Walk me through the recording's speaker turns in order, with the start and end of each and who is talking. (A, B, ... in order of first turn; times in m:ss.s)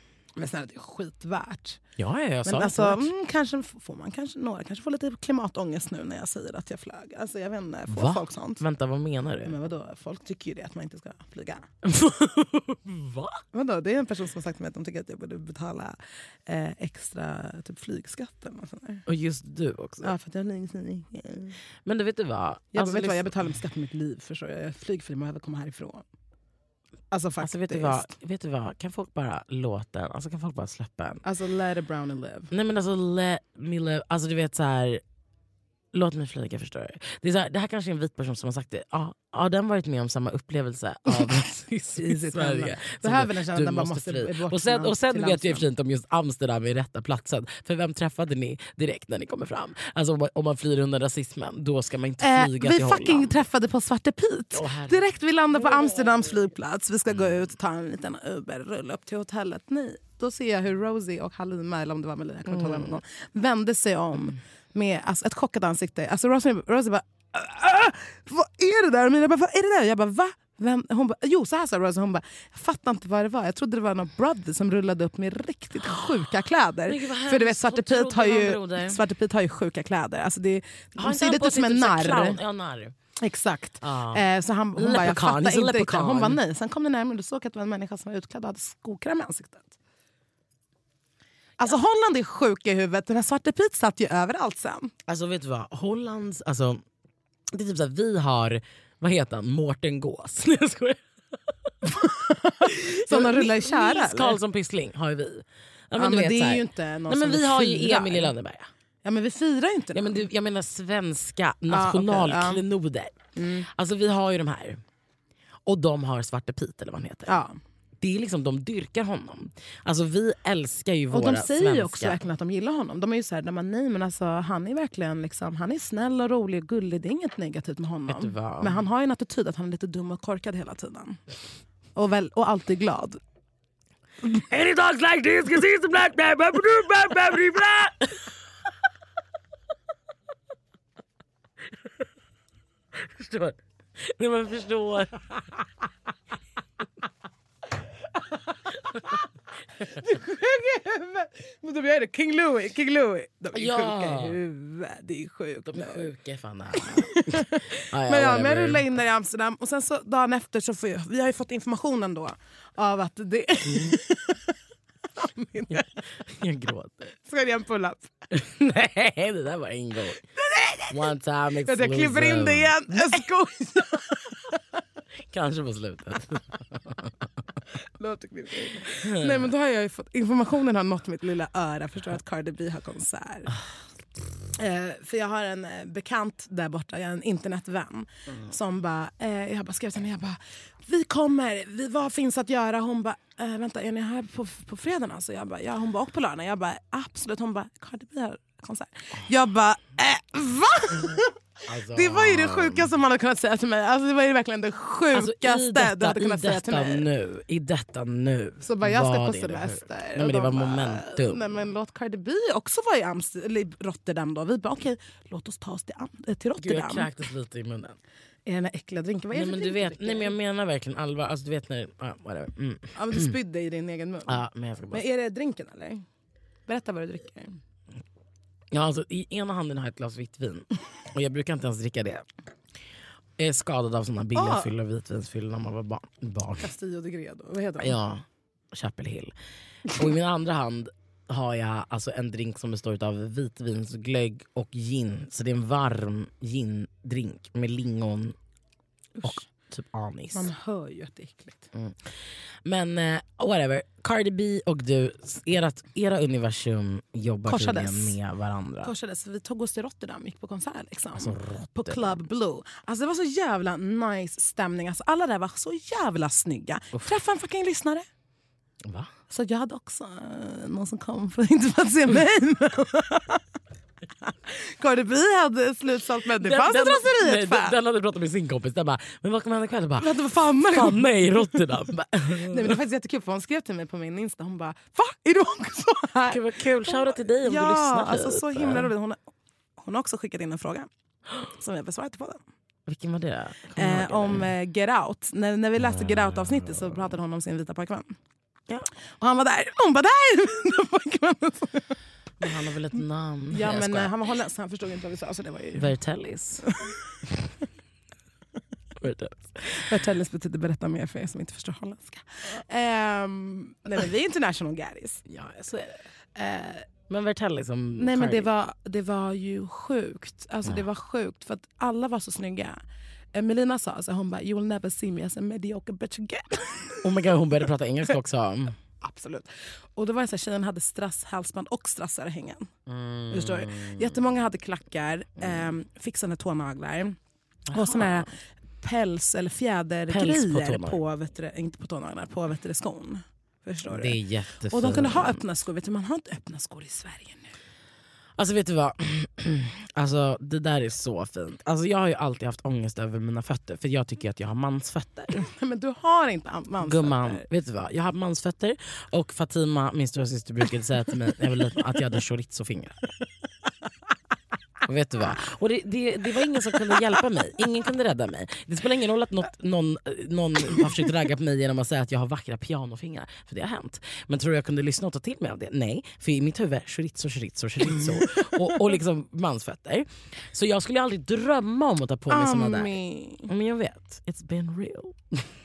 0:00.4-0:01.8 A
0:02.0-0:03.1 B
0:02.4-0:08.6 A
0:07.9-0:09.6 B
0:09.4-0:11.7 A
0:11.8-0:13.4 B
0:13.5-0:19.1 A
0:19.1-0:20.1 B
0:20.0-0:21.6 A
0:21.9-0:23.3 B
0:22.7-0:26.0 A
0:27.1-0:28.1 A
0:27.4-0:31.2 B
0:31.2-0:32.5 A
0:32.5-0:35.0 B
0:35.9-0:53.4 B
0:42.0-0:45.7 A
0:52.2-1:22.4 A
0:54.5-0:55.1 B
0:55.6-0:56.4 B
1:02.5-1:03.0 B
1:16.9-1:19.0 B
1:21.0-1:23.0 B
1:23.2-1:29.8 A
1:23.8-1:24.2 B
1:24.8-1:26.4 B
1:31.6-1:34.9 A
1:35.1-1:36.8 B
1:37.5-1:41.0 B
1:41.8-1:44.4 A
1:42.6-1:48.7 B
1:46.0-1:48.3 A
1:49.0-1:50.3 A
1:50.0-1:53.2 B
1:51.7-1:52.6 A
1:53.4-1:53.7 A
1:53.8-1:54.8 B
1:55.7-1:57.4 B
1:57.3-1:57.6 A
1:58.0-2:02.2 B
2:01.1-2:11.2 A
2:08.1-2:08.8 B
2:12.0-2:13.2 A
2:14.2-2:18.3 B
2:23.0-2:25.7 B
2:28.3-2:29.2 A
2:29.9-2:36.1 A
2:33.5-2:34.4 B
2:35.7-2:38.8 B
2:36.8-2:44.6 A
2:45.2-2:46.0 A
2:45.7-2:47.1 B
2:47.2-2:48.1 A
2:48.3-2:50.2 B
2:50.4-2:51.1 A
2:50.9-2:53.2 B
2:51.6-2:54.8 A
2:55.3-2:57.2 B
2:57.8-3:03.5 A
2:59.0-2:59.5 B
3:04.5-3:21.4 A
3:21.7-3:22.9 B
3:21.9-3:27.1 A
3:25.1-3:31.6 B
3:28.6-3:37.1 A
3:36.6-3:38.0 B
3:38.5-3:40.4 A
3:39.3-3:43.3 B
3:43.0-3:46.0 A
3:44.3-3:45.0 B
3:46.7-3:47.6 A
3:48.7-3:52.2 B
3:53.4-3:56.7 B
3:54.4-3:54.7 A
3:56.6-3:58.0 A
3:57.8-3:59.3 B
3:59.9-4:08.4 B
4:09.2-4:09.4 A
4:09.2-4:10.5 B
4:10.3-4:11.7 A
4:11.7-4:12.1 B
4:12.6-4:18.9 B
4:17.5-4:18.2 A
4:18.8-4:28.1 A
4:21.2-4:22.2 B
4:28.8-4:29.1 B
4:29.3-4:33.4 A
4:34.2-4:37.8 A
4:36.4-4:42.8 B
4:40.0-4:41.7 A
4:42.4-4:49.2 A
4:46.3-4:48.9 B
4:49.8-4:50.9 A
4:51.5-4:52.4 A
4:52.9-4:54.5 B
4:53.8-4:58.2 A
4:55.8-4:57.0 B
4:59.2-5:02.0 A
5:02.4-5:04.1 B
5:03.5-5:05.9 A
5:05.8-5:06.7 B
5:06.6-5:07.0 A
5:09.0-5:10.0 B
5:09.7-5:15.2 A
5:15.3-5:16.0 B
5:16.4-5:16.9 A
5:17.1-5:18.5 B
5:18.0-5:22.8 A
5:23.3-5:27.2 A
5:27.0-5:28.8 B
5:29.0-5:32.7 A
5:32.9-5:34.1 B
5:33.3-5:37.2 A
5:37.7-5:38.3 B
5:37.7-5:44.2 A
5:40.1-5:41.0 B
5:43.9-5:45.4 B
5:44.7-5:47.5 A
5:48.4-5:55.5 B
5:55.4-5:57.4 A
5:56.8-6:03.1 B
6:04.8-6:22.9 B
6:17.9-6:18.9 A
6:22.3-6:23.5 A
6:23.5-6:25.5 B